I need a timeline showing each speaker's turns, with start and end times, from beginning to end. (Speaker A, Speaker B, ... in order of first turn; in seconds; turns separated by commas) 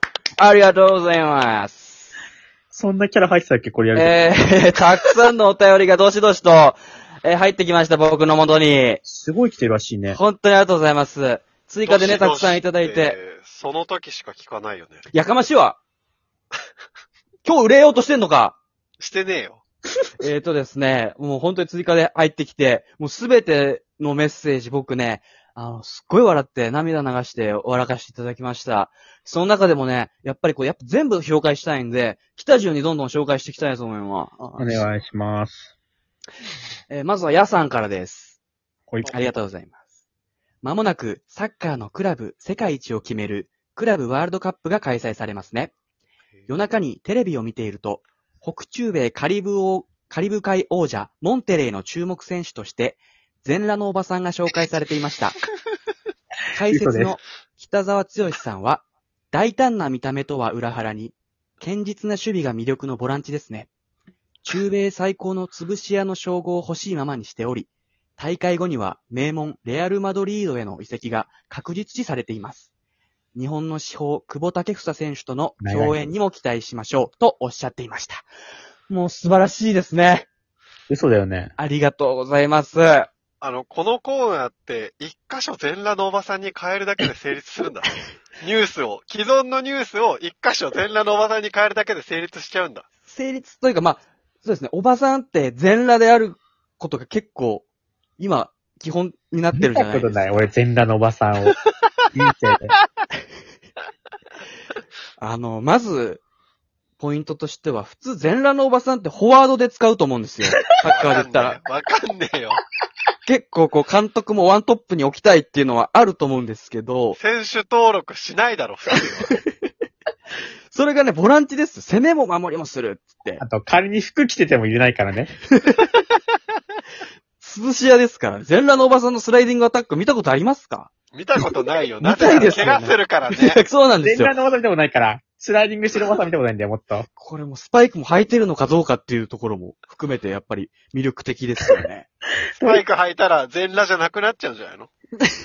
Speaker A: 0.4-2.1, Speaker B: 2.7-4.2, Speaker A: 3.9-9.0, Speaker B: 9.0-10.2, Speaker A: 10.1-13.2, Speaker C: 11.8-15.1, Speaker A: 15.1-15.8, Speaker A: 17.4-18.6, Speaker C: 19.0-19.6, Speaker A: 20.2-34.9, Speaker B: 34.6-35.7, Speaker A: 36.9-38.4, Speaker B: 38.9-39.1, Speaker A: 39.0-39.8, Speaker A: 40.6-45.7, Speaker A: 46.5-55.4, Speaker A: 56.5-63.7, Speaker B: 56.7-57.1, Speaker A: 64.4-72.7, Speaker A: 73.3-78.3, Speaker B: 75.6-76.0, Speaker A: 78.9-80.3, Speaker B: 80.9-81.5, Speaker A: 81.6-83.1, Speaker C: 83.4-92.8, Speaker A: 93.1-97.7, Speaker A: 98.2-100.5, Speaker B: 99.5-101.5, Speaker B: 102.1-102.7, Speaker A: 105.2-106.2, Speaker A: 107.0-111.6, Speaker C: 110.8-112.6, Speaker A: 113.3-117.2, Speaker C: 117.2-119.4, Speaker A: 119.3-119.6, Speaker A: 120.7-123.4, Speaker B: 123.4-125.3, Speaker A: 125.5-125.9, Speaker A: 127.4-130.9, Speaker C: 131.1-133.6, Speaker A: 132.0-134.3, Speaker B: 134.0-137.1, Speaker A: 137.2-142.1, Speaker B: 142.6-142.8, Speaker C: 142.6-144.9